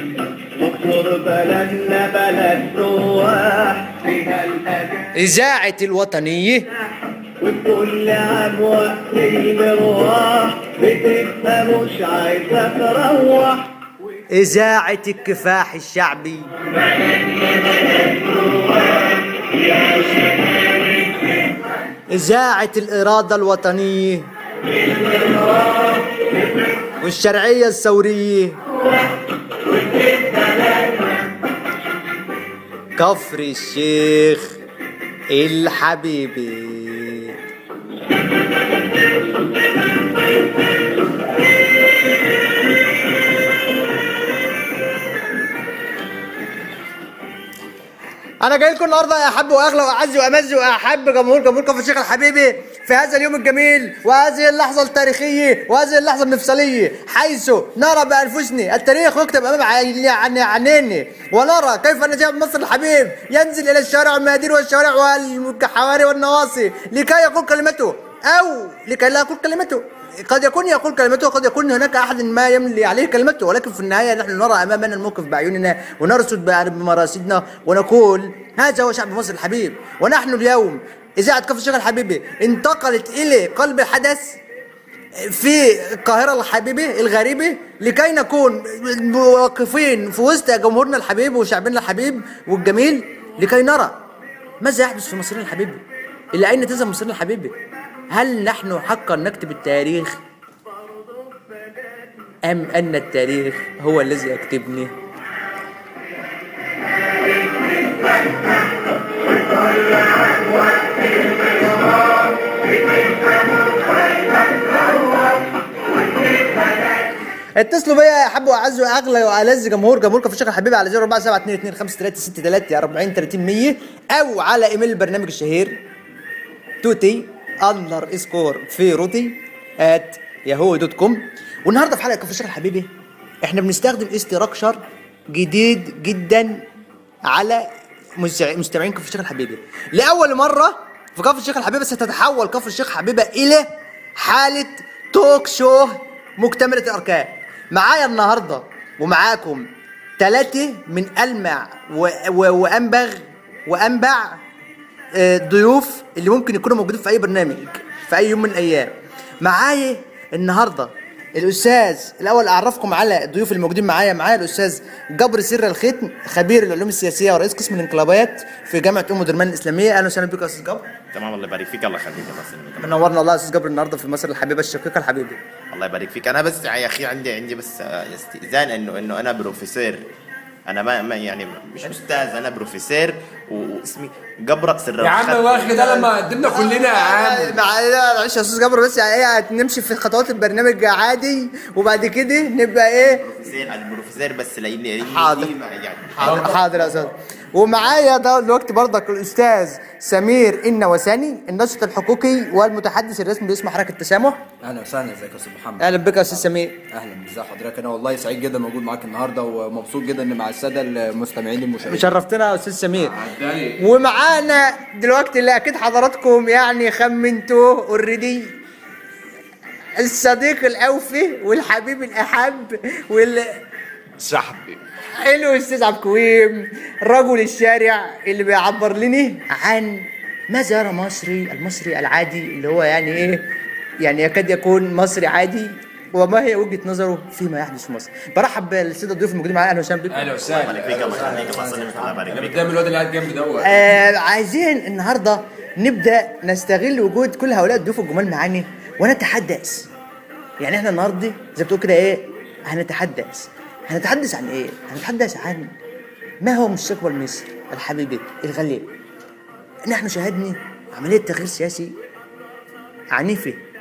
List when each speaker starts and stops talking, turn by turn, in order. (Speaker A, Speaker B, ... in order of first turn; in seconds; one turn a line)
Speaker A: 0.6-5.1
Speaker B: 5.2-6.7
Speaker A: 7.4-13.8
Speaker B: 14.3-16.5
Speaker B: 22.1-24.3
Speaker B: 27.0-28.6
Speaker B: 33.0-34.6
Speaker B: 35.3-37.4
Speaker B: 48.4-84.4
Speaker B: 85.2-94.0
Speaker B: 94.6-97.6
Speaker B: 98.1-100.2
Speaker B: 102.4-104.9
Speaker B: 117.6-125.8
Speaker B: 126.8-132.9
Speaker B: 133.4-136.7
Speaker B: 137.3-154.4
Speaker B: 155.1-170.9
Speaker C: 171.1-173.0
Speaker B: 172.8-175.4
Speaker C: 175.7-180.0
Speaker C: 180.7-185.7
Speaker D: 185.0-187.6
Speaker B: 185.7-193.3
Speaker C: 193.2-197.0
Speaker B: 195.0-195.5
Speaker B: 196.1-204.4
Speaker E: 204.6-212.1
Speaker B: 205.8-206.8
Speaker B: 211.8-213.2
Speaker D: 213.0-213.8
Speaker B: 213.8-218.6
Speaker B: 220.0-223.6
Speaker D: 224.2-224.8
Speaker B: 225.2-233.5
Speaker B: 234.0-240.3
Speaker D: 240.1-243.8
Speaker C: 240.4-242.8
Speaker E: 241.0-242.2
Speaker B: 243.6-249.9
Speaker B: 250.6-255.7
Speaker B: 256.4-258.9
Speaker B: 259.8-261.9
Speaker B: 263.1-263.6